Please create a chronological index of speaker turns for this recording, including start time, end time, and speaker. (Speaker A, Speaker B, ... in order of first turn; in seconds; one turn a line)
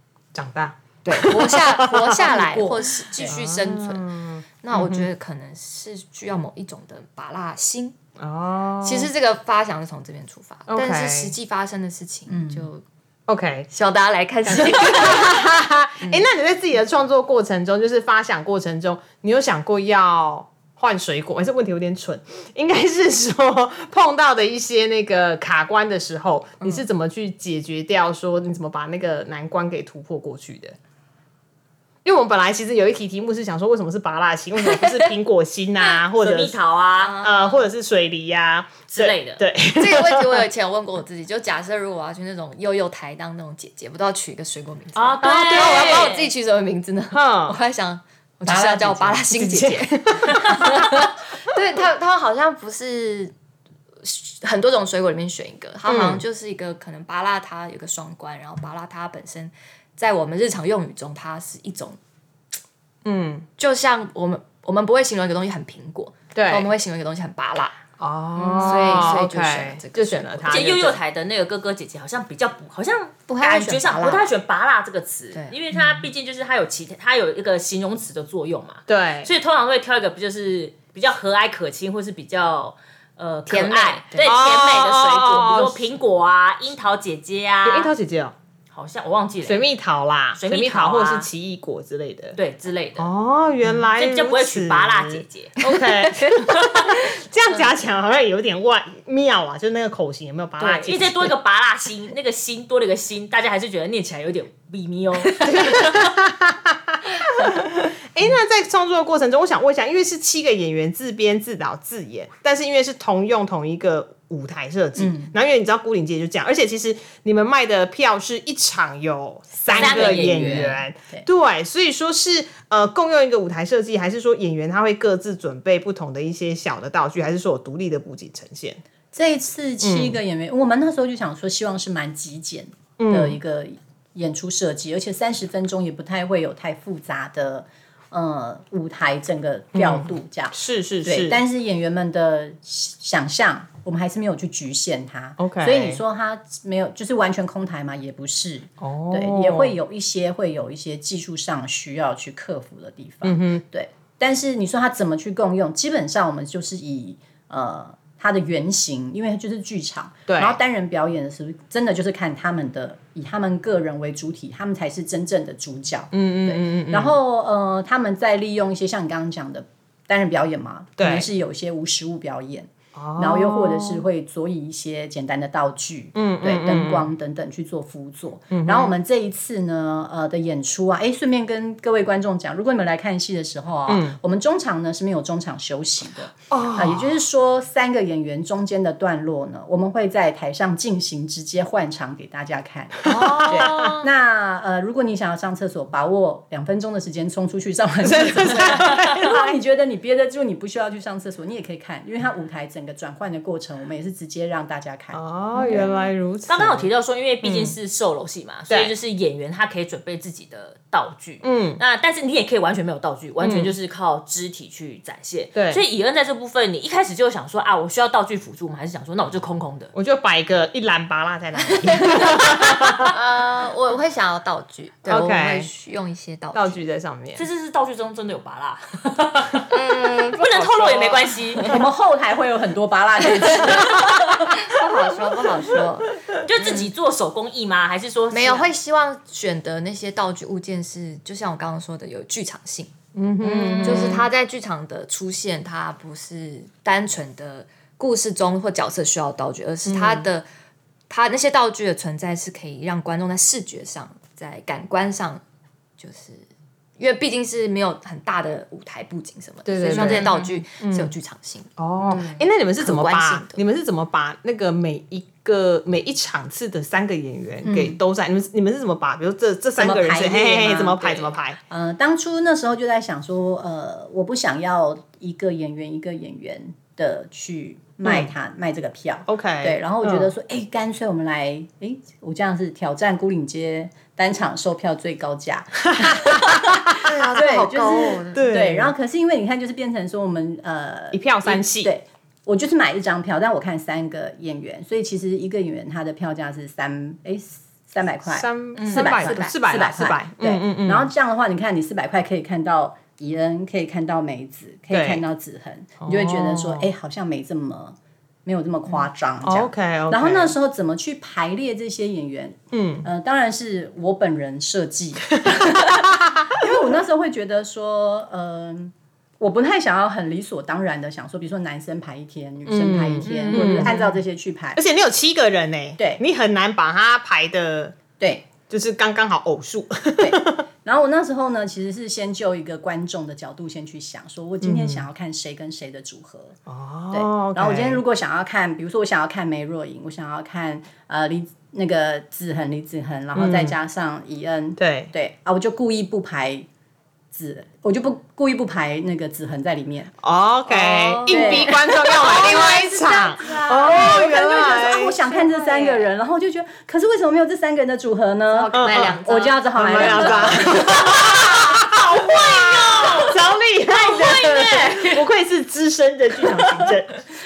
Speaker A: 0.3-2.3
Speaker B: 1.0-8.0
Speaker C: 2.2-3.3
Speaker A: 3.2-5.1
Speaker A: 8.2-9.1
Speaker B: 8.8-12.8
Speaker A: 10.7-11.3
Speaker C: 12.3-12.7
Speaker A: 13.3-13.7
Speaker B: 13.7-16.3
Speaker A: 14.4-30.8
Speaker A: 32.0-36.5
Speaker D: 35.8-37.2
Speaker B: 37.0-37.6
Speaker A: 37.2-40.4
Speaker D: 38.9-39.4
Speaker B: 39.8-53.3
Speaker D: 45.0-46.3
Speaker A: 45.2-46.1
Speaker A: 47.1-47.6
Speaker C: 48.5-49.2
Speaker A: 49.3-51.0
Speaker B: 54.0-62.0
Speaker A: 55.9-56.2
Speaker A: 63.0-63.5
Speaker B: 63.6-67.8
Speaker A: 66.3-66.7
Speaker A: 68.0-71.0
Speaker D: 68.4-69.1
Speaker B: 68.4-70.9
Speaker D: 70.5-87.9
Speaker B: 73.3-74.3
Speaker A: 78.9-79.3
Speaker B: 83.5-84.3
Speaker A: 84.2-85.8
Speaker A: 87.6-88.3
Speaker D: 88.7-89.7
Speaker A: 89.4-92.4
Speaker D: 90.4-91.3
Speaker D: 92.3-93.1
Speaker A: 93.0-101.3
Speaker D: 94.0-95.6
Speaker B: 95.6-96.5
Speaker D: 100.6-106.1
Speaker A: 105.4-128.8
Speaker C: 115.0-115.3
Speaker C: 119.7-121.2
Speaker D: 119.7-120.7
Speaker C: 129.1-205.8
Speaker A: 129.8-130.2
Speaker A: 133.0-133.4
Speaker A: 139.7-141.4
Speaker A: 145.4-146.0
Speaker A: 148.8-149.8
Speaker A: 153.2-153.6
Speaker A: 160.3-160.6
Speaker A: 166.1-167.2
Speaker A: 171.0-171.3
Speaker A: 172.9-174.0
Speaker A: 176.1-177.1
Speaker A: 178.5-178.9
Speaker A: 183.9-184.2
Speaker A: 186.5-187.2
Speaker A: 193.0-194.0
Speaker B: 193.1-194.1
Speaker A: 198.0-199.6
Speaker A: 205.1-206.9
Speaker B: 205.6-205.8
Speaker D: 206.5-219.9
Speaker A: 207.4-207.8
Speaker A: 208.7-208.9
Speaker A: 211.4-211.8
Speaker A: 213.4-213.7
Speaker A: 215.5-215.8
Speaker A: 219.9-223.1
Speaker B: 221.8-226.8
Speaker A: 225.0-225.7
Speaker A: 226.5-227.4
Speaker D: 227.3-231.8
Speaker B: 229.7-231.7
Speaker C: 231.6-234.5
Speaker B: 233.4-236.9
Speaker D: 236.4-238.7
Speaker B: 238.3-250.4
Speaker A: 243.1-244.3
Speaker A: 249.8-250.3
Speaker B: 251.1-255.4
Speaker B: 256.0-256.5
Speaker B: 257.0-263.6
Speaker A: 259.6-261.1
Speaker D: 259.9-260.4
Speaker A: 261.8-271.6
Speaker C: 267.6-268.0
Speaker C: 269.8-324.8
Speaker A: 278.0-278.3
Speaker A: 279.3-280.3
Speaker A: 285.9-287.5
Speaker B: 287.0-288.5
Speaker A: 288.3-288.9
Speaker A: 291.1-291.9
Speaker A: 298.3-301.1
Speaker B: 298.8-299.4
Speaker A: 304.9-305.2
Speaker A: 306.0-306.9
Speaker A: 309.4-310.5
Speaker A: 312.7-313.1
Speaker A: 315.4-316.3
Speaker A: 322.6-324.0
Speaker B: 323.2-324.2
Speaker A: 324.8-328.0
Speaker C: 328.2-328.5
Speaker A: 328.7-330.6
Speaker C: 330.2-336.6
Speaker A: 334.6-335.1
Speaker A: 336.7-338.0
Speaker C: 337.1-346.7
Speaker A: 343.3-343.8
Speaker A: 344.8-345.1
Speaker C: 347.3-350.1
Speaker A: 350.2-355.2
Speaker B: 350.7-351.9
Speaker C: 351.3-352.9
Speaker D: 352.3-354.0
Speaker C: 353.4-361.4
Speaker B: 353.9-354.2
Speaker B: 355.2-356.1
Speaker B: 358.5-360.9
Speaker A: 358.7-359.2
Speaker A: 359.8-367.2
Speaker D: 362.3-365.2
Speaker C: 366.5-367.0